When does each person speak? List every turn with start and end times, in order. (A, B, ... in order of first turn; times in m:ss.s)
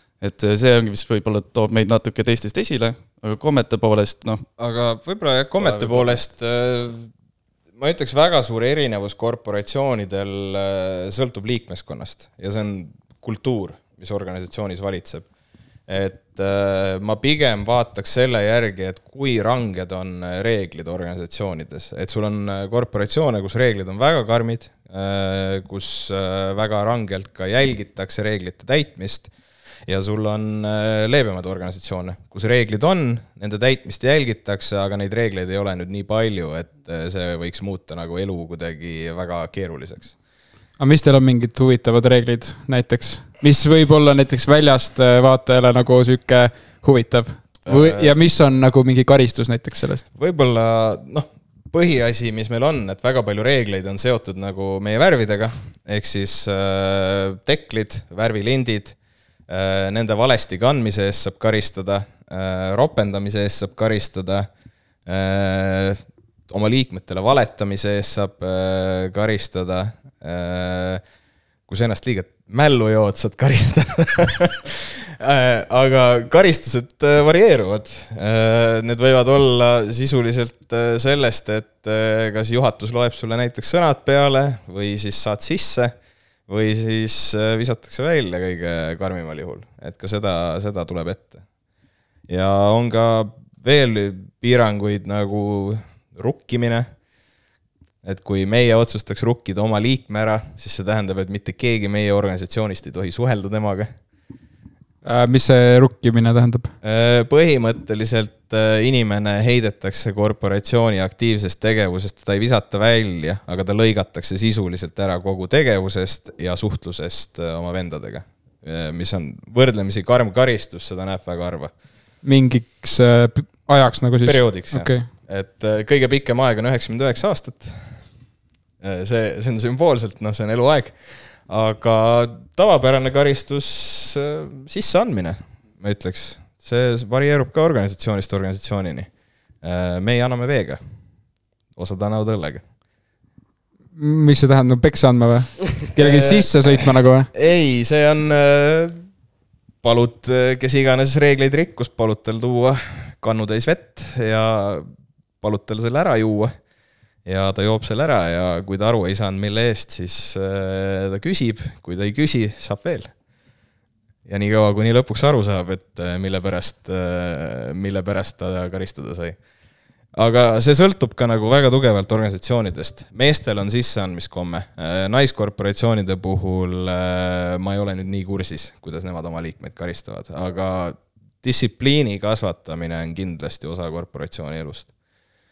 0:00.2-0:04.4 A
0:04.6-0:07.1 B
0:05.6-0:06.1 A
0:07.8-0:15.3 B
0:15.9-0:29.3 B
0:29.9-0:40.1 B
0:40.8-0:50.0 C
0:47.7-0:48.2 B
0:50.1-0:59.0 B
0:59.5-1:04.5 B
1:05.0-1:11.0 B
1:11.7-1:25.9 B
1:26.5-1:31.4 B
1:32.3-1:36.9 B
1:38.0-1:43.9 B
1:45.0-1:46.7 C
1:46.8-2:01.7 B
2:02.2-2:05.1 C
2:04.2-2:08.0 B
2:08.8-2:19.1 B
2:19.6-2:20.8 B
2:21.7-2:22.6 B
2:24.0-2:27.3 C
2:25.9-2:29.0 B
2:29.8-2:34.9 B
2:35.4-2:36.5 B
2:37.2-2:43.1 B
2:44.3-2:49.4 B
2:50.1-3:04.9 B